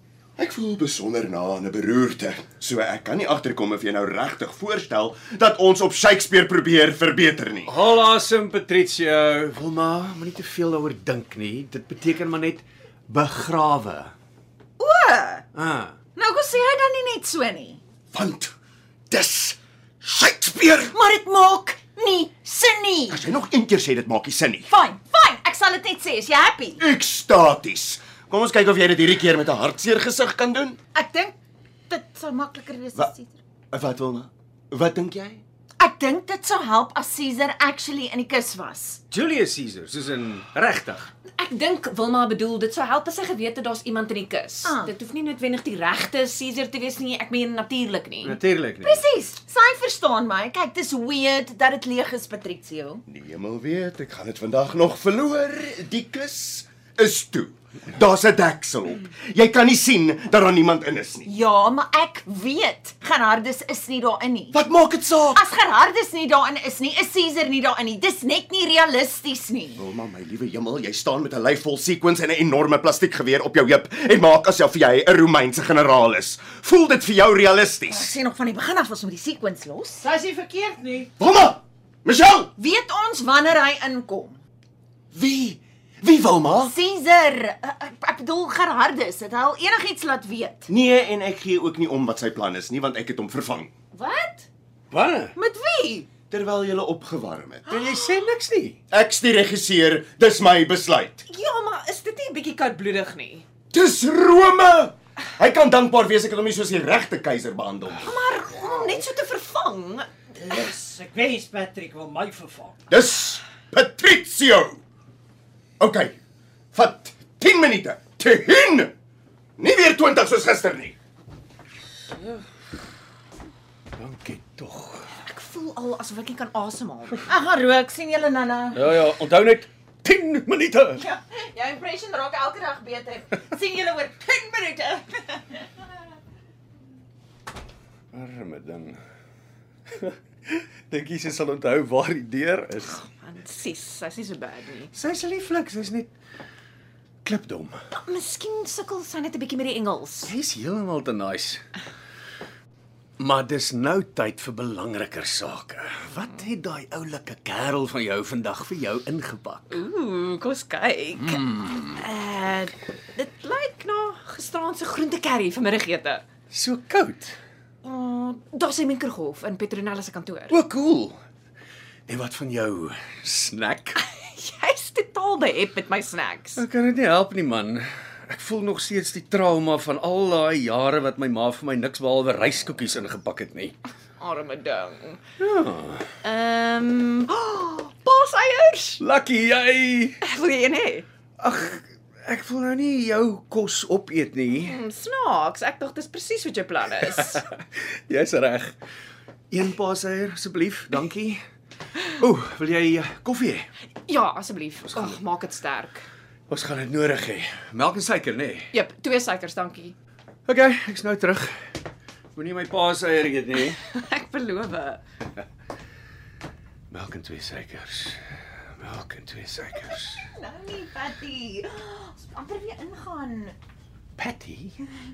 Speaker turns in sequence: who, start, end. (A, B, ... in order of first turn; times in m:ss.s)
0:00.4-0:07.8 A
0:07.7-0:14.1 B
0:14.8-0:15.4 C
0:15.5-0:16.0 B
0:16.2-0:17.8 C
0:18.1-0:18.5 A
0:19.1-0:20.9 A
0:20.9-0:23.2 C
0:23.1-0:24.7 A
0:24.7-0:26.8 C
0:26.8-0:30.8 A
0:31.0-0:31.4 C
0:31.9-0:33.4 C
0:33.7-0:35.4 A
0:35.8-0:39.0 C
0:39.1-0:41.1 B
0:41.4-0:48.4 D
0:44.6-0:44.9 C
0:48.2-0:49.0 B
0:48.8-0:53.0 C
0:53.1-1:01.3 A
1:01.3-1:04.6 C
1:04.5-1:05.4 A
1:05.3-1:09.8 C
1:09.8-1:18.1 A
1:17.9-1:20.0 C
1:20.0-1:21.1 E
1:21.2-1:22.5 A
1:22.6-1:24.4 C
1:25.1-1:26.7 A
1:26.6-1:30.7 C
1:30.7-1:33.7 A
1:33.9-1:34.5 D
1:34.9-1:35.3 B
1:35.4-1:36.1 C
1:36.3-1:37.6 A
1:37.7-1:38.8 B
1:38.9-1:41.2 A
1:41.3-1:43.5 D
1:43.7-1:48.1 A
1:48.0-1:50.1 D
1:50.4-1:52.8 E
1:52.9-1:54.8 A
1:55.8-1:56.2 A
1:56.7-1:58.9 A
1:59.6-2:01.0 A
2:04.0-2:05.1 B
2:05.2-2:07.2 D
2:07.3-2:08.8 C
2:08.7-2:11.0 B
2:11.0-2:15.6 C
2:18.1-2:19.0 B
2:20.0-2:22.9 B
2:22.8-2:24.9 D
2:24.9-2:26.1 B
2:27.2-2:27.8 B
2:27.9-2:30.3 D
2:30.2-2:31.6 B
2:33.2-2:39.8 B
2:39.7-2:46.2 D
2:41.2-2:42.0 B
2:46.5-2:47.4 B
2:47.8-2:50.6 D
2:50.5-2:51.2 B
2:52.1-2:54.0 B
2:54.0-2:56.6 D
2:56.6-3:03.8 B
3:04.2-3:05.2 D
3:05.4-3:06.1 B
3:06.2-3:09.0 D
3:09.0-3:10.2 B
3:10.2-3:11.0 D
3:11.4-3:14.8 B
3:14.6-3:17.4 D
3:17.2-3:18.8 B
3:19.5-3:21.4 B
3:22.2-3:23.7 B
3:24.1-3:26.1 D
3:26.5-3:28.7 B
3:28.7-3:30.0 D
3:30.5-3:31.6 B
3:32.4-3:33.8 B
3:33.8-3:35.0 D
3:36.9-3:38.2 B
3:38.8-3:40.2 B
3:40.4-3:43.6 C
3:44.2-3:44.8 B